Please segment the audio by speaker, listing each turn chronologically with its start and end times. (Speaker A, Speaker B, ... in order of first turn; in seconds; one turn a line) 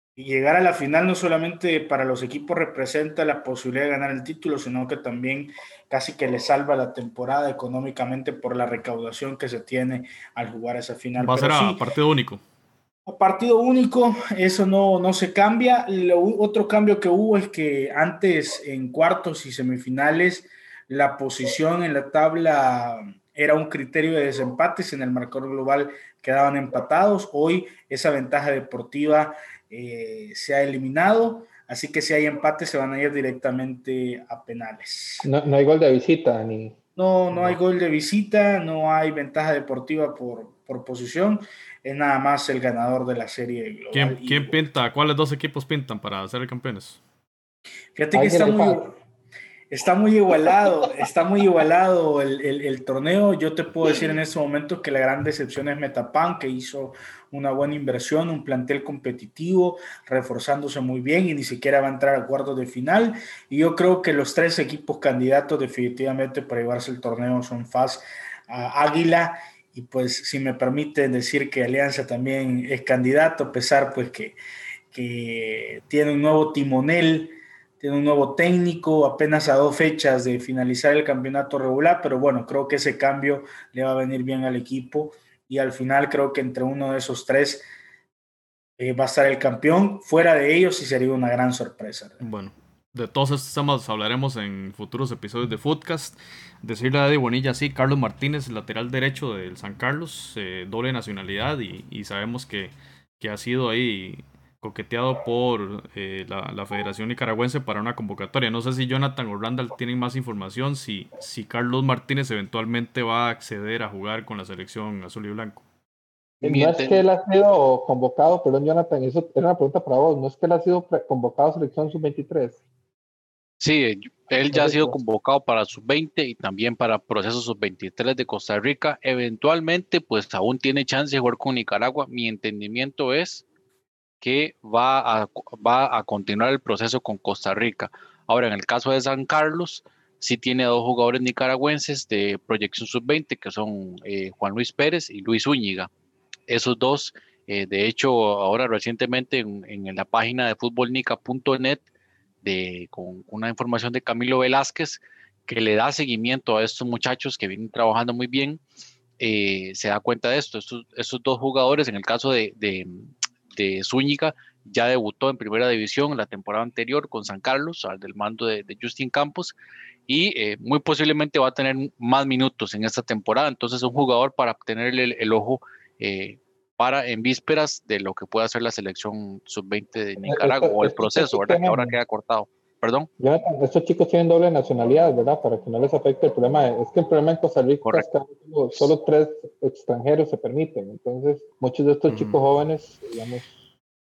Speaker A: 0.1-11.8
Speaker B: 11.2-12.4
Speaker A: 13.1-35.3
Speaker C: 35.2-36.8
Speaker A: 37.0-44.6
Speaker B: 43.9-47.0
Speaker A: 48.0-48.9
Speaker C: 48.1-48.8
Speaker A: 49.7-74.4
Speaker A: 74.9-87.7
Speaker A: 88.8-92.2
Speaker B: 92.2-115.6
Speaker D: 116.4-117.0
Speaker C: 116.4-122.6
Speaker D: 123.6-133.4
Speaker C: 124.5-125.0
Speaker D: 134.2-145.9
Speaker D: 146.5-151.8
Speaker D: 152.4-158.6
Speaker D: 159.2-169.6
Speaker D: 170.1-183.1
Speaker C: 180.2-182.0
Speaker C: 183.2-193.5
Speaker B: 192.1-192.4